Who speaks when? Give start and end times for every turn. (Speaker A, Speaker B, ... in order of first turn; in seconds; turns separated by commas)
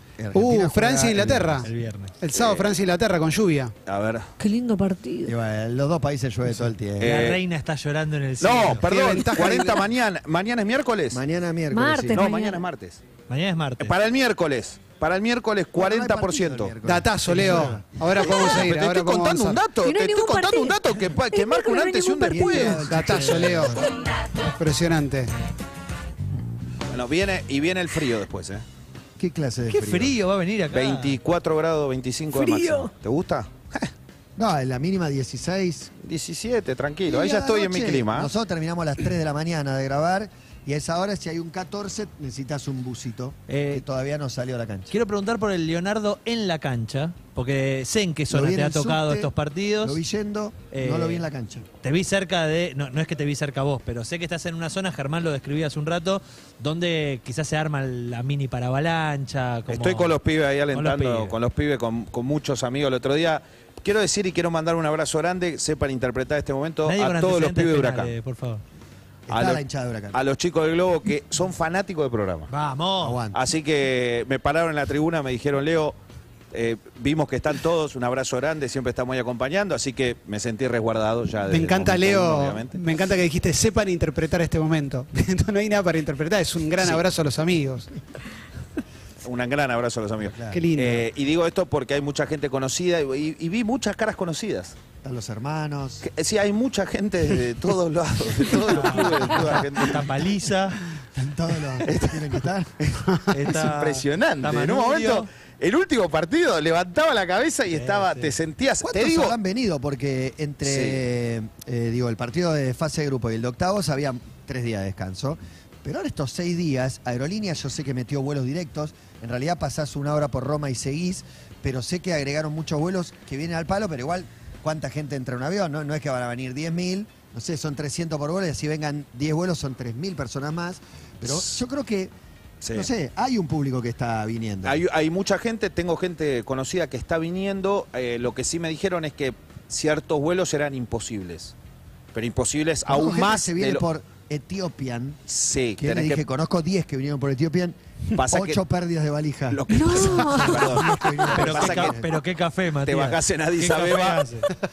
Speaker A: 0.2-1.6, Speaker B: 0.3-1.7, Speaker C: 1.6-2.1, Speaker B: 2.2-3.7, Speaker D: 2.3-2.7, Speaker D: 3.9-4.2, Speaker E: 4.4-5.3, Speaker A: 5.2-7.2, Speaker D: 7.0-7.4, Speaker C: 7.0-8.9, Speaker D: 8.4-11.2, Speaker B: 8.6-9.9, Speaker A: 11.1-12.2, Speaker E: 11.7-12.6, Speaker D: 12.1-13.0, Speaker C: 13.3-13.9, Speaker D: 13.8-16.7, Speaker A: 15.7-17.9, Speaker B: 16.8-19.8, Speaker D: 18.2-22.9, Speaker E: 19.8-22.6, Speaker A: 22.2-23.9, Speaker B: 22.8-23.9, Speaker B: 24.6-25.3, Speaker D: 26.9-28.6, Speaker A: 29.2-30.2, Speaker C: 29.7-31.2, Speaker D: 30.7-33.9, Speaker C: 32.4-32.8, Speaker A: 34.4-35.9, Speaker D: 36.0-38.3, Speaker A: 37.0-44.9, Speaker C: 43.5-43.8, Speaker C: 44.9-50.0, Speaker A: 48.3-51.6, Speaker C: 50.7-51.2, Speaker C: 51.8-60.2, Speaker D: 59.7-68.1, Speaker C: 60.7-61.4, Speaker C: 66.8-68.6, Speaker A: 69.3-70.2, Speaker D: 69.3-72.5, Speaker C: 72.5-73.2, Speaker A: 73.0-73.4, Speaker D: 73.3-76.0, Speaker D: 76.5-82.8, Speaker B: 81.5-87.9, Speaker D: 89.2-94.7, Speaker A: 90.2-90.6, Speaker B: 90.5-91.1, Speaker A: 95.0-96.0, Speaker D: 96.0-100.1, Speaker C: 98.7-100.8, Speaker A: 101.1-102.8, Speaker D: 101.9-109.4, Speaker C: 103.3-105.3, Speaker C: 107.7-108.3, Speaker A: 108.8-132.1, Speaker D: 110.6-111.0, Speaker D: 132.6-132.9, Speaker A: 132.7-134.8, Speaker D: 134.6-141.5, Speaker D: 142.1-143.9, Speaker A: 142.8-145.2, Speaker D: 145.3-146.2, Speaker A: 145.8-147.8, Speaker D: 148.1-148.6, Speaker A: 148.3-152.2, Speaker D: 149.5-152.0, Speaker E: 149.7-151.0, Speaker C: 151.3-154.5, Speaker D: 152.8-154.2